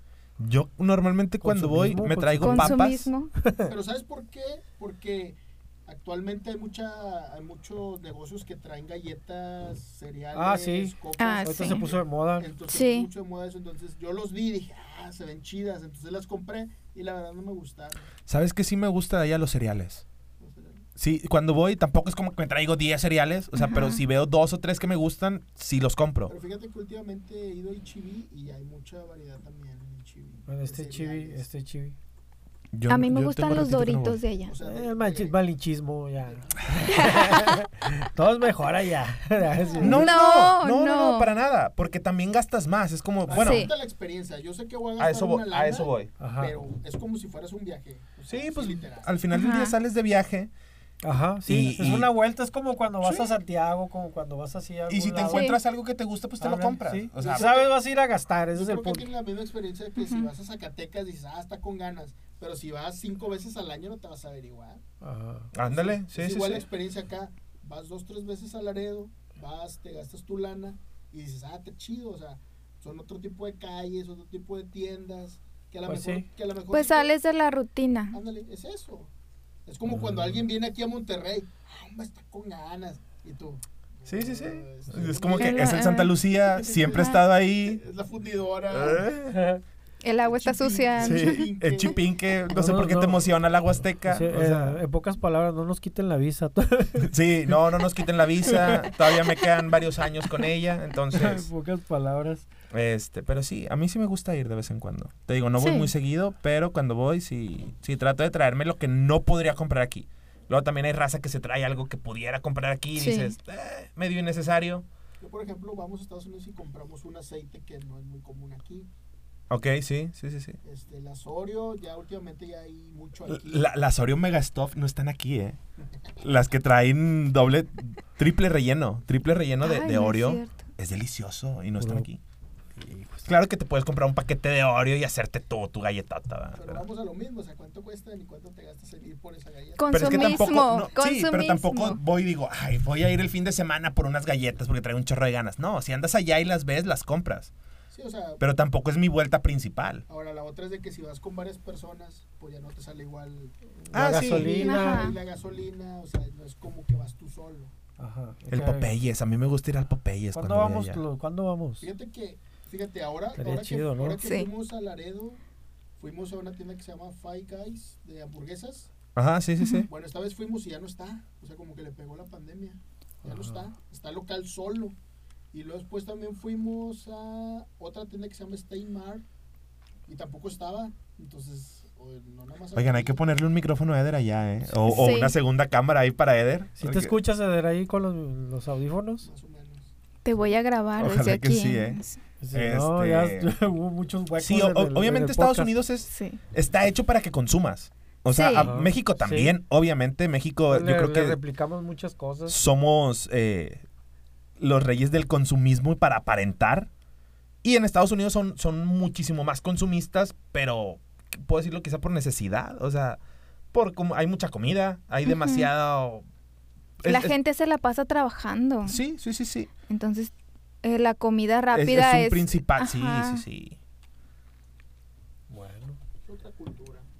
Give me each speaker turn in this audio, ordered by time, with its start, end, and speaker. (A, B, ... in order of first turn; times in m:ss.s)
0:00.4-0:03.1 A
0:01.4-0:02.8 B
0:02.4-0:03.3 C
0:03.4-0:03.7 B
0:03.6-0:18.1 D
0:10.3-0:12.5 B
0:11.2-0:11.8 C
0:12.7-0:13.1 C
0:18.3-0:20.0 A
0:20.4-0:20.8 D
0:21.0-0:26.3 A
0:23.5-0:24.0 C
0:26.3-0:31.4 D
0:30.5-0:32.0 B
0:32.7-0:34.2 A
0:32.9-0:34.5 C
0:34.5-0:35.3 D
0:34.6-0:40.1 B
0:36.2-0:37.4 D
0:36.9-0:37.5 C
0:39.5-0:40.1 D
0:39.8-0:41.3 C
0:39.8-0:43.7 A
0:43.3-0:49.1 D
0:43.3-0:43.7 C
0:45.0-0:46.1 A
0:46.2-0:46.5 B
0:48.3-0:50.5 A
0:49.3-0:49.8 C
0:51.0-0:55.5 B
0:51.4-0:52.1 A
0:53.0-0:53.3 A
0:54.9-0:57.5 A
0:55.3-0:55.6 C
0:56.4-0:59.1 B
0:57.2-0:57.7 D
0:58.5-1:04.8 D
1:00.0-1:00.3 C
1:05.0-1:05.5 B
1:05.5-1:06.6 A
1:05.6-1:17.1 D
1:15.8-1:16.2 B
1:16.7-1:18.2 C
1:18.1-1:19.1 D
1:19.6-1:29.1 D
1:19.9-1:20.4 B
1:24.0-1:27.8 A
1:25.4-1:26.1 C
1:26.8-1:27.2 C
1:28.7-1:29.4 A
1:29.3-1:29.6 B
1:30.0-1:31.5 C
1:30.2-1:32.0 D
1:31.0-1:34.8 A
1:32.5-1:33.2 B
1:34.0-1:37.1 B
1:37.0-1:41.5 A
1:38.4-1:39.1 B
1:41.1-1:42.5 B
1:42.7-1:54.8 A
1:45.6-1:45.9 C
1:53.0-1:53.3 C
1:55.2-1:58.9 D
1:59.5-2:00.6 A
2:00.6-2:03.7 D
2:03.3-2:05.6 A
2:06.2-2:12.2 A
2:09.6-2:10.6 C
2:11.8-2:12.1 B
2:12.8-2:13.3 B
2:13.2-2:16.8 A
2:16.5-2:20.8 D
2:19.8-2:22.0 C
2:19.9-2:27.5 A
2:27.9-2:28.4 D
2:28.4-2:30.0 A
2:30.1-2:37.7 D
2:33.8-2:35.1 B
2:33.9-2:34.6 A
2:34.6-2:35.2 C
2:38.0-2:38.9 B
2:38.5-2:41.0 A
2:40.3-2:41.9 B
2:41.8-2:45.4 D
2:43.3-2:44.2 B
2:44.2-2:44.5 C
2:46.0-2:48.9 D
2:49.2-2:49.9 A
2:49.6-2:49.8 C
2:49.9-2:55.0 D
2:53.2-2:53.6 B
2:55.5-2:59.2 D
3:00.0-3:03.2 D
3:02.7-3:07.1 A
3:04.9-3:05.4 C
3:06.8-3:09.3 B
3:09.2-3:10.5 D
3:10.2-3:12.2 C
3:11.0-3:12.0 A
3:12.4-3:15.7 B
3:12.5-3:13.5 A
3:14.4-3:21.4 A
3:16.1-3:16.4 C
3:18.3-3:18.7 C
3:18.5-3:19.5 B
3:20.7-3:22.6 B
3:22.5-3:23.8 A
3:24.6-3:26.9 A
3:27.6-3:33.2 A
3:33.7-3:36.2 A
3:35.2-3:35.7 C
3:37.0-3:37.3 A
3:37.0-3:39.0 C
3:38.8-3:39.7 A
3:39.9-3:40.3 C
3:40.8-3:43.4 C
3:41.7-3:43.8 A
3:45.5-3:46.0 B
3:46.2-3:47.1 D